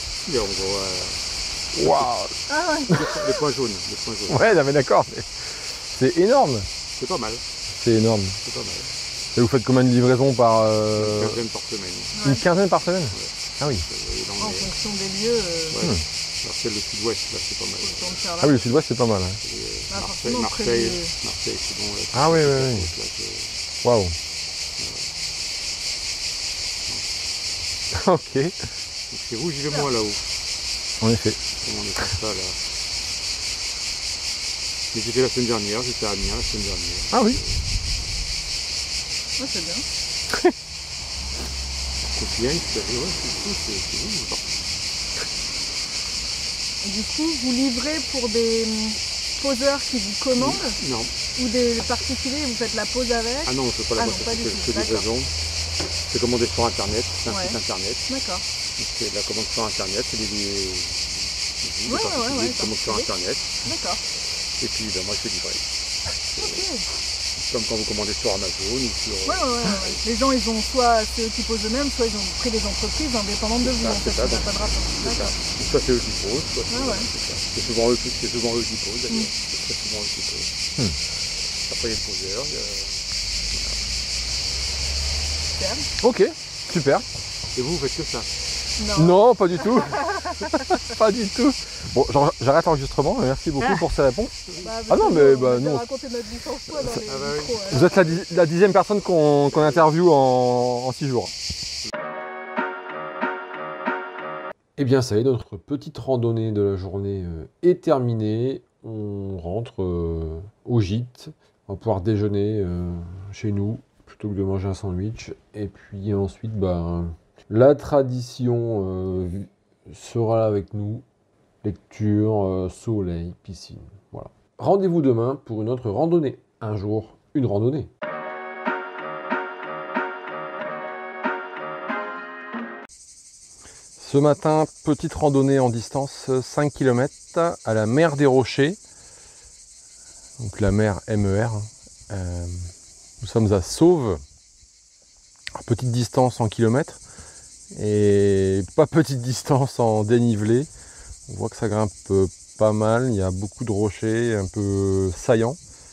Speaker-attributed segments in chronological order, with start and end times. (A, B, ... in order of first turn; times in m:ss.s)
0:00.2-0:02.1 A
0:01.7-0:02.4 B
0:02.5-0:03.0 C
0:02.9-0:04.4 A
0:04.3-0:06.7 B
0:07.0-0:07.4 A
0:07.7-0:08.4 B
0:08.4-0:08.9 A
0:09.3-0:11.4 B
0:11.0-0:12.2 A
0:12.2-0:12.4 C
0:12.2-0:13.8 B
0:13.1-0:14.7 A
0:14.4-0:15.8 C
0:15.7-0:18.3 A
0:17.8-0:18.6 C
0:18.4-0:19.4 B
0:19.4-0:23.6 A
0:19.9-0:21.1 C
0:22.1-0:22.9 B
0:23.8-0:24.1 B
0:24.8-0:25.1 A
0:27.9-0:28.6 B
0:29.1-0:30.3 A
0:31.0-0:31.4 B
0:31.6-0:32.6 A
0:34.9-0:37.7 A
0:37.1-0:37.4 B
0:39.4-0:39.8 C
0:42.1-0:44.6 A
0:46.8-0:50.8 C
0:50.4-0:51.1 A
0:51.4-0:55.1 C
0:53.4-0:55.3 A
0:56.1-0:58.1 A
0:57.3-0:57.6 C
0:58.1-0:58.4 C
0:58.8-1:03.6 A
1:01.9-1:03.1 C
1:03.6-1:04.0 C
1:04.6-1:05.7 A
1:06.3-1:06.7 A
1:06.4-1:06.8 C
1:07.4-1:10.0 A
1:09.2-1:15.4 C
1:13.6-1:20.5 A
1:16.7-1:17.1 C
1:21.6-1:23.8 A
1:25.5-1:25.9 C
1:26.0-1:27.0 B
1:27.5-1:28.3 A
1:28.8-1:30.3 C
1:28.9-1:35.8 B
1:34.6-1:38.1 C
1:37.0-1:38.1 A
1:37.6-1:41.3 B
1:44.8-2:01.0 B
2:01.6-2:07.9 B
2:14.0-2:18.8 B
2:20.4-2:24.2 B
2:25.5-2:27.0 B
2:27.7-2:30.7 B
2:31.3-2:35.6 B